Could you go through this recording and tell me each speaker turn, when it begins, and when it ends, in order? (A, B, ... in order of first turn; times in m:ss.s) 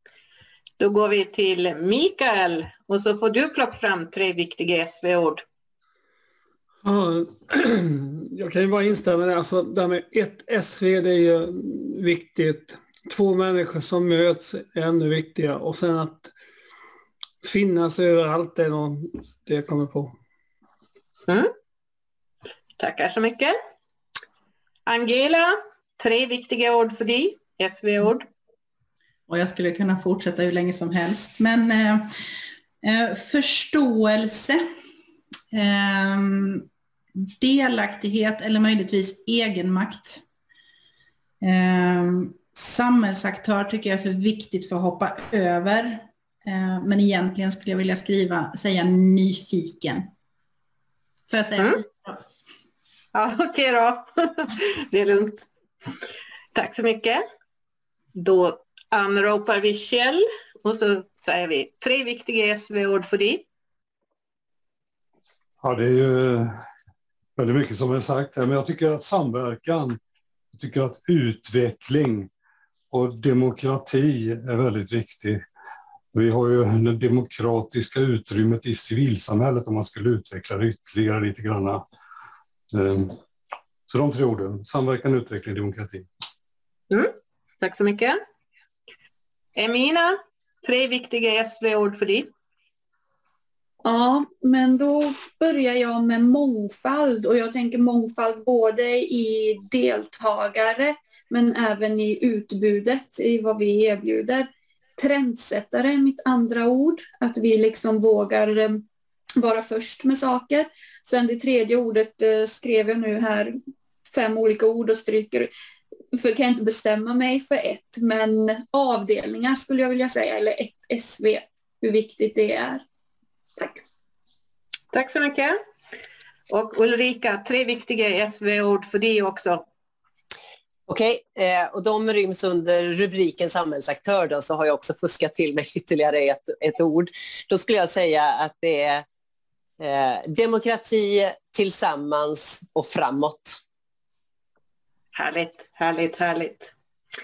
0:00.8-0:05.4 A
0:06.8-0:16.3 B
0:17.4-0:20.1 B
0:22.8-0:23.5 A
0:24.9-0:28.3 A
0:29.3-0:32.1 C
0:32.8-0:34.6 C
0:35.5-0:36.7 C
0:37.4-0:40.2 C
0:41.4-0:50.1 C
0:51.3-0:52.2 C
0:53.1-0:55.5 A
0:56.5-0:57.2 A
0:58.1-1:03.4 A
1:05.6-1:06.6 D
1:07.4-1:10.0 D
1:10.5-1:12.3 D
1:12.9-1:15.4 D
1:16.1-1:21.8 D
1:22.7-1:23.2 D
1:23.9-1:26.1 D
1:26.9-1:28.2 A
1:29.6-1:32.3 A
1:33.8-1:48.8 E
1:49.4-1:55.5 E
1:56.1-2:02.8 E
2:04.9-2:05.6 A
2:06.5-2:09.6 A
2:10.9-2:19.0 F
2:19.8-2:23.6 F
2:25.1-2:26.7 A